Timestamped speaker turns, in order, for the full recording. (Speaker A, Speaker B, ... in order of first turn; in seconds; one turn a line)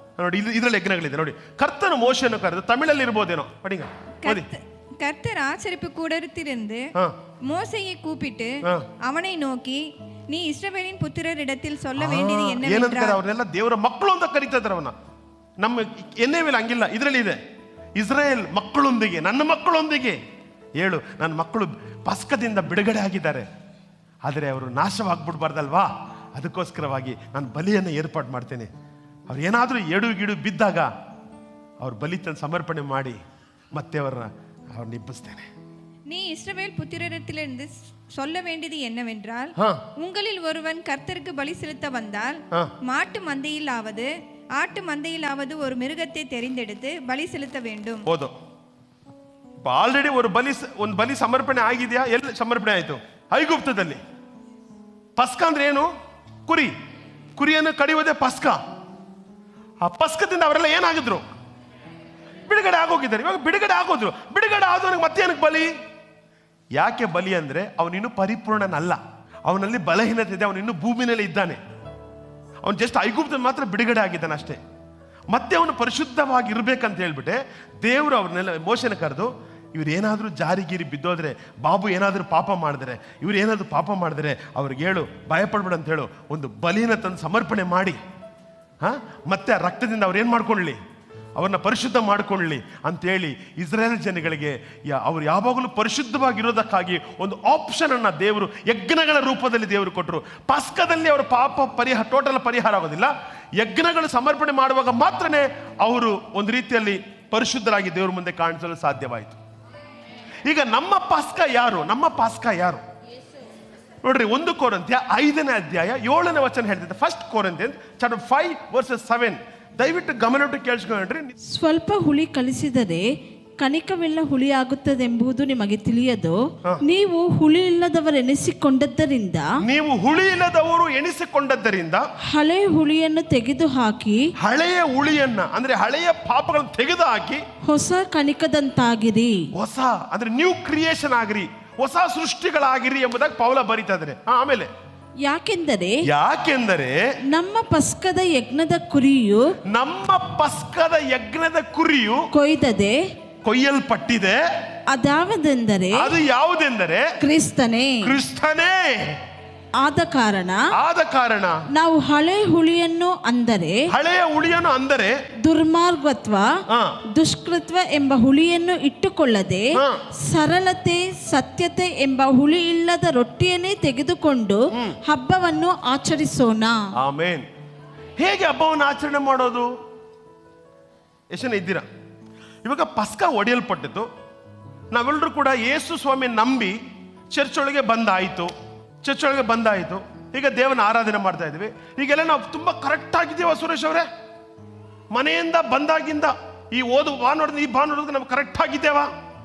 Speaker A: 0.2-4.5
Speaker B: 4.2-6.9
Speaker B: 7.5-13.2
Speaker A: 12.0-14.9
Speaker A: 15.6-17.4
Speaker A: 18.0-20.2
Speaker A: 20.8-23.5
Speaker A: 24.2-28.7
Speaker A: 29.3-30.9
Speaker A: 31.8-33.2
Speaker A: 33.8-35.5
Speaker B: 36.1-48.0
Speaker A: 39.6-39.9
Speaker A: 48.1-48.3
Speaker A: 49.6-54.0
Speaker A: 55.2-55.9
Speaker A: 56.5-56.7
Speaker A: 57.4-58.6
Speaker A: 59.8-61.3
Speaker A: 62.5-65.7
Speaker A: 66.8-71.6
Speaker A: 72.6-74.6
Speaker A: 75.3-88.0
Speaker A: 88.8-90.8
Speaker A: 91.4-109.4
Speaker A: 110.5-112.8
Speaker A: 114.0-121.3
Speaker C: 121.5-123.0
Speaker C: 123.6-129.5
Speaker A: 129.6-132.1
Speaker C: 132.3-134.2
Speaker A: 134.4-137.4
Speaker C: 137.7-139.4
Speaker A: 139.6-144.7
Speaker C: 145.2-146.0
Speaker A: 146.0-147.0
Speaker C: 147.3-149.4
Speaker A: 149.7-152.3
Speaker C: 152.3-153.0
Speaker A: 153.4-154.4
Speaker C: 154.9-156.1
Speaker A: 155.9-157.1
Speaker C: 157.2-158.0
Speaker A: 158.0-159.2
Speaker C: 159.8-160.6
Speaker A: 160.7-161.6
Speaker C: 161.7-163.8
Speaker A: 163.9-165.2
Speaker C: 165.4-166.5
Speaker A: 166.7-167.0
Speaker C: 167.2-169.7
Speaker A: 169.8-170.0
Speaker C: 170.3-176.8
Speaker A: 174.7-175.0
Speaker A: 177.0-177.5
Speaker A: 178.2-179.7
Speaker A: 181.3-181.9
Speaker A: 182.6-184.1
Speaker A: 184.9-186.8
Speaker A: 187.3-188.5
Speaker A: 189.0-194.1
Speaker A: 195.1-199.1